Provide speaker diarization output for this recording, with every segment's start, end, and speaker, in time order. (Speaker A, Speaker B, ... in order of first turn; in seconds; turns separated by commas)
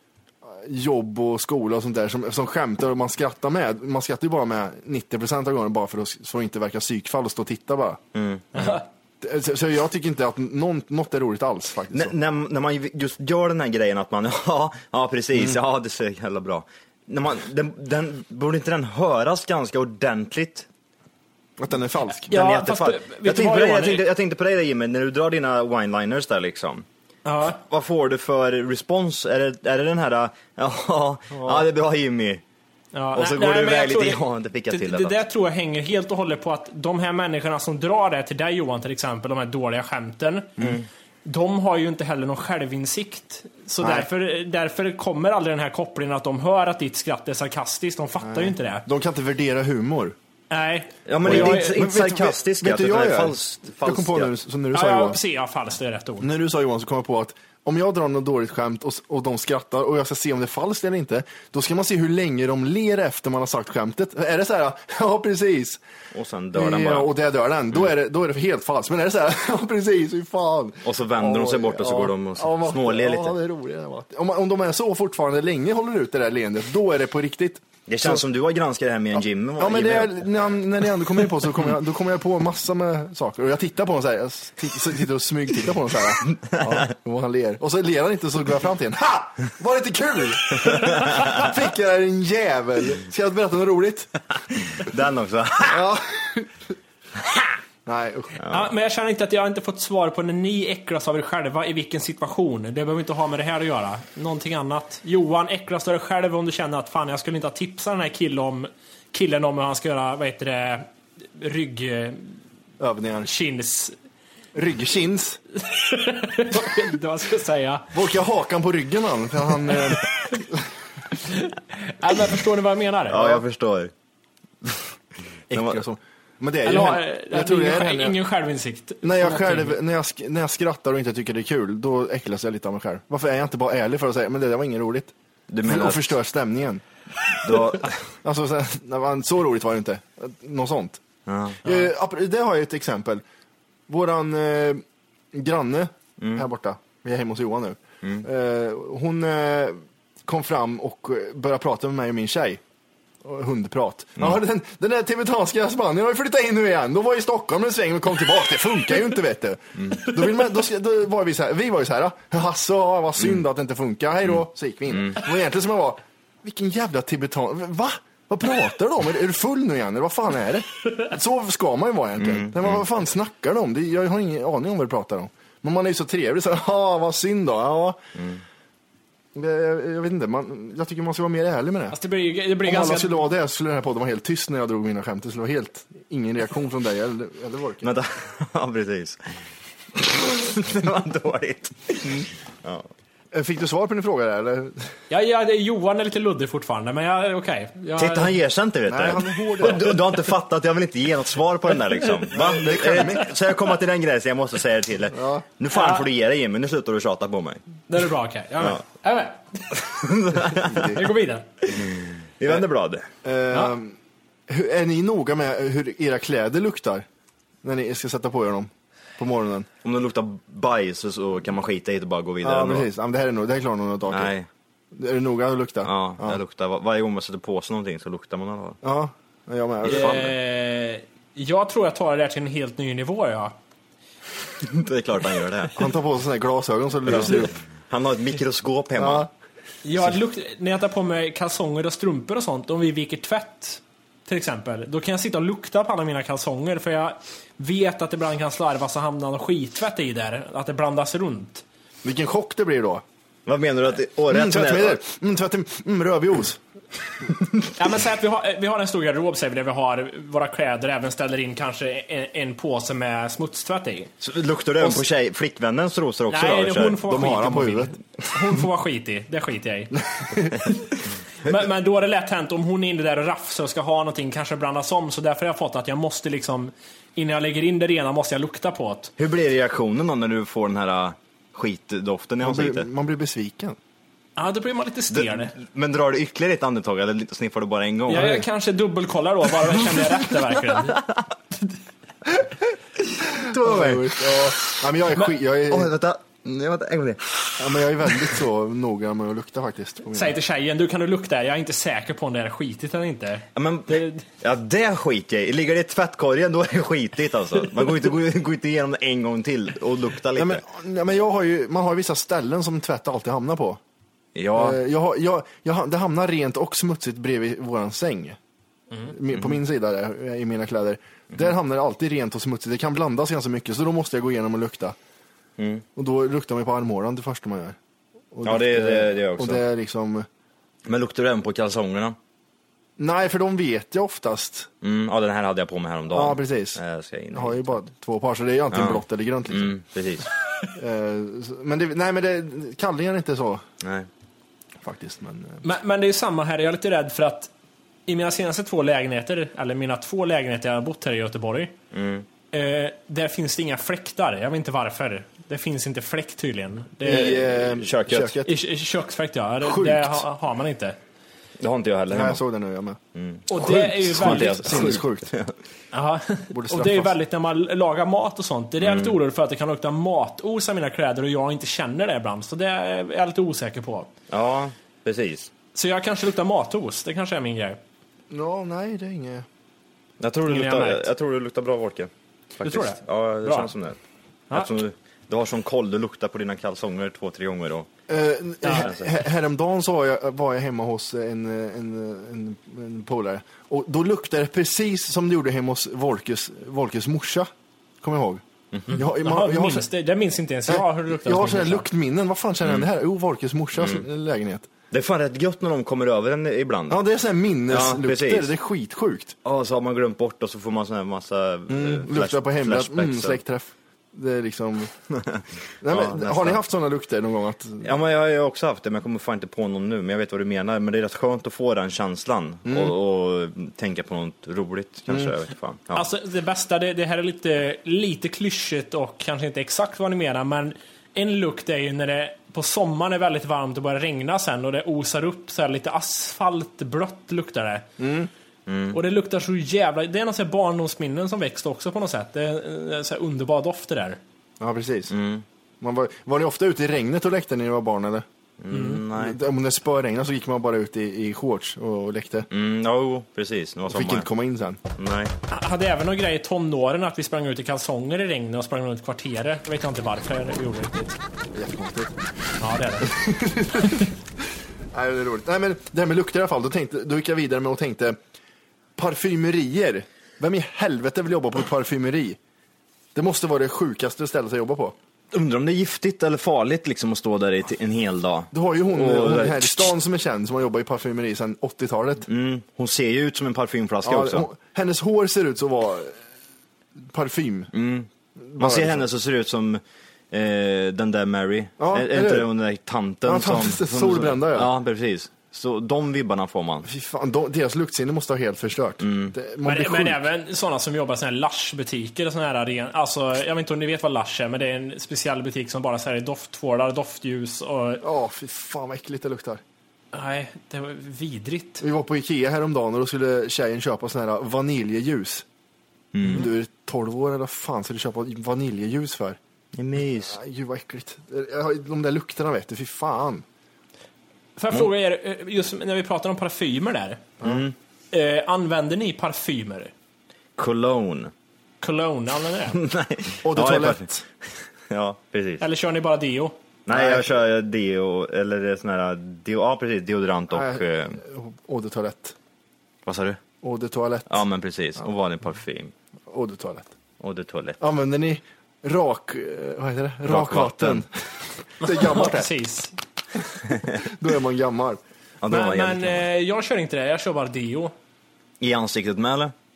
Speaker A: 0.4-8.0, Speaker B: 8.1-8.8, Speaker C: 8.5-8.8, Speaker A: 9.2-12.1, Speaker B: 11.9-20.7, Speaker A: 15.3-15.6, Speaker A: 21.6-22.3, Speaker C: 22.3-24.1, Speaker B: 22.3-26.9, Speaker C: 27.2-27.6, Speaker B: 27.5-32.4, Speaker A: 31.3-31.6, Speaker C: 32.9-40.5, Speaker B: 33.1-35.2, Speaker B: 40.6-40.9, Speaker C: 41.2-48.9, Speaker A: 43.8-44.1, Speaker A: 48.2-50.1, Speaker C: 50.5-51.8, Speaker B: 51.0-54.4, Speaker A: 51.2-55.2, Speaker C: 54.7-56.3, Speaker A: 56.2-65.8, Speaker B: 66.1-67.1, Speaker A: 66.5-78.2, Speaker B: 70.8-73.4, Speaker B: 77.9-80.2, Speaker A: 79.2-94.1, Speaker B: 86.5-86.8, Speaker B: 90.9-91.3, Speaker B: 94.7-95.8, Speaker A: 95.6-96.5, Speaker A: 97.8-98.4, Speaker B: 98.4-98.7, Speaker C: 98.5-112.3, Speaker A: 112.8-113.3, Speaker C: 113.2-114.0, Speaker A: 114.5-115.4, Speaker C: 115.5-117.9, Speaker A: 117.9-120.6, Speaker C: 121.2-123.4, Speaker B: 123.1-123.9, Speaker A: 125.5-128.2, Speaker B: 125.5-125.8, Speaker C: 126.6-129.8, Speaker A: 129.0-136.8, Speaker B: 135.5-136.2, Speaker B: 137.4-138.1, Speaker A: 138.2-141.0, Speaker B: 141.2-141.6, Speaker A: 141.6-143.2, Speaker A: 143.9-152.6, Speaker B: 146.2-146.5, Speaker B: 148.0-148.3, Speaker A: 153.2-178.0, Speaker B: 164.3-165.2, Speaker B: 172.2-172.8, Speaker B: 178.2-178.4, Speaker A: 179.3-181.9, Speaker C: 181.9-183.3, Speaker A: 182.6-187.9, Speaker B: 187.8-189.3, Speaker B: 189.9-192.9, Speaker A: 193.3-194.9, Speaker C: 195.1-198.3, Speaker B: 198.0-207.6, Speaker A: 198.9-200.0, Speaker A: 202.3-203.3, Speaker A: 205.1-205.4, Speaker C: 205.7-206.0, Speaker C: 207.9-209.8, Speaker B: 209.8-210.9, Speaker A: 210.5-211.0, Speaker C: 210.9-211.5, Speaker B: 211.7-213.1, Speaker A: 213.2-214.0, Speaker A: 214.5-217.1, Speaker A: 217.6-219.7, Speaker B: 219.8-222.9, Speaker A: 222.4-224.3, Speaker B: 224.1-224.5, Speaker A: 224.9-226.4, Speaker B: 225.8-228.8, Speaker A: 228.8-230.2, Speaker B: 229.8-230.3, Speaker C: 229.9-233.5, Speaker B: 234.6-235.8, Speaker A: 235.8-237.6, Speaker B: 237.1-239.3, Speaker A: 238.9-239.3, Speaker C: 239.8-251.6, Speaker A: 252.0-253.0, Speaker B: 253.4-255.0, Speaker A: 254.3-256.6, Speaker C: 257.8-264.1, Speaker B: 264.2-267.2, Speaker C: 266.3-270.0, Speaker A: 267.1-268.0, Speaker A: 270.1-270.5, Speaker C: 271.4-279.1, Speaker B: 279.2-282.9, Speaker A: 282.4-283.8, Speaker C: 284.4-285.5, Speaker B: 285.1-288.4, Speaker C: 288.1-291.0, Speaker A: 288.1-288.4, Speaker A: 293.3-295.9, Speaker B: 293.6-294.0, Speaker B: 295.7-297.6, Speaker A: 297.6-300.4, Speaker C: 300.1-304.2, Speaker B: 303.5-310.6, Speaker A: 310.3-313.8, Speaker B: 314.3-314.8, Speaker A: 314.5-318.4, Speaker A: 319.1-324.9, Speaker B: 319.3-319.6, Speaker B: 325.6-325.8, Speaker A: 325.9-327.8, Speaker A: 328.3-330.3, Speaker B: 328.4-329.6, Speaker B: 330.9-332.1, Speaker A: 333.0-334.7, Speaker B: 334.8-337.8, Speaker A: 336.1-336.8, Speaker A: 337.3-339.7, Speaker B: 338.7-340.3, Speaker A: 340.8-343.6, Speaker B: 343.8-344.1, Speaker A: 344.8-345.6, Speaker C: 345.6-347.5, Speaker C: 348.1-351.7, Speaker B: 351.9-352.2, Speaker C: 352.5-357.4, Speaker A: 357.0-358.5, Speaker B: 357.1-358.4, Speaker C: 358.4-361.0, Speaker A: 359.6-360.2, Speaker B: 361.6-362.4, Speaker A: 362.1-363.0, Speaker B: 363.1-365.5, Speaker C: 363.5-364.9, Speaker A: 363.5-365.3, Speaker C: 365.9-374.1, Speaker A: 366.5-367.1, Speaker B: 368.8-369.2, Speaker B: 374.3-375.5, Speaker C: 375.7-377.8, Speaker A: 378.3-379.4, Speaker B: 380.2-384.0, Speaker C: 380.5-381.1, Speaker C: 382.6-383.7, Speaker B: 384.5-387.9, Speaker A: 388.1-397.5, Speaker B: 388.7-389.2, Speaker A: 398.0-399.9, Speaker B: 398.7-399.0, Speaker C: 398.9-401.9, Speaker A: 400.7-404.7, Speaker B: 402.6-402.9, Speaker B: 403.8-404.0, Speaker B: 404.9-407.0, Speaker A: 406.9-409.4, Speaker B: 407.7-408.5, Speaker B: 409.4-413.4, Speaker A: 411.7-414.9, Speaker B: 415.2-416.6, Speaker A: 415.8-417.9, Speaker B: 417.8-426.1, Speaker A: 422.7-422.9, Speaker C: 425.9-437.9, Speaker A: 438.0-438.3, Speaker B: 438.6-439.0, Speaker C: 438.9-444.2, Speaker A: 444.6-445.1, Speaker B: 445.1-445.4, Speaker A: 445.8-448.2, Speaker B: 448.6-449.4, Speaker C: 448.7-449.0, Speaker A: 449.1-452.5, Speaker B: 452.5-454.3, Speaker A: 453.9-454.8, Speaker B: 455.0-455.3, Speaker C: 455.5-461.2, Speaker A: 461.5-462.1, Speaker C: 462.6-463.1, Speaker A: 463.1-464.1, Speaker A: 464.9-468.2, Speaker A: 468.9-472.4, Speaker A: 473.1-474.9, Speaker B: 475.3-479.9, Speaker A: 478.5-482.3, Speaker B: 482.3-484.4, Speaker A: 484.0-486.2, Speaker A: 487.0-487.7, Speaker B: 487.7-496.9, Speaker A: 488.4-489.1, Speaker A: 491.8-492.5, Speaker A: 493.2-494.7, Speaker A: 496.8-500.2, Speaker B: 499.0-499.3, Speaker C: 499.6-508.0, Speaker A: 508.0-509.6, Speaker C: 510.1-511.8, Speaker A: 511.8-515.4, Speaker B: 516.1-516.5, Speaker A: 516.2-519.4, Speaker B: 519.7-520.4, Speaker A: 520.2-523.4, Speaker C: 524.6-527.2, Speaker A: 527.4-527.6, Speaker B: 527.4-527.7, Speaker C: 528.1-529.9, Speaker B: 530.6-531.3, Speaker C: 531.8-532.8, Speaker B: 532.7-534.0, Speaker A: 533.4-534.2, Speaker B: 534.9-535.6, Speaker C: 535.6-536.5, Speaker B: 536.9-541.2, Speaker A: 536.9-537.3, Speaker A: 540.5-542.3, Speaker B: 543.0-543.4, Speaker A: 543.6-544.4, Speaker B: 544.3-545.9, Speaker A: 546.3-546.9, Speaker B: 547.2-547.8, Speaker A: 547.8-551.1, Speaker B: 550.3-551.0, Speaker A: 551.8-552.5, Speaker C: 551.8-552.9, Speaker A: 553.9-555.0, Speaker B: 555.4-556.2, Speaker C: 555.5-557.9, Speaker B: 558.6-559.5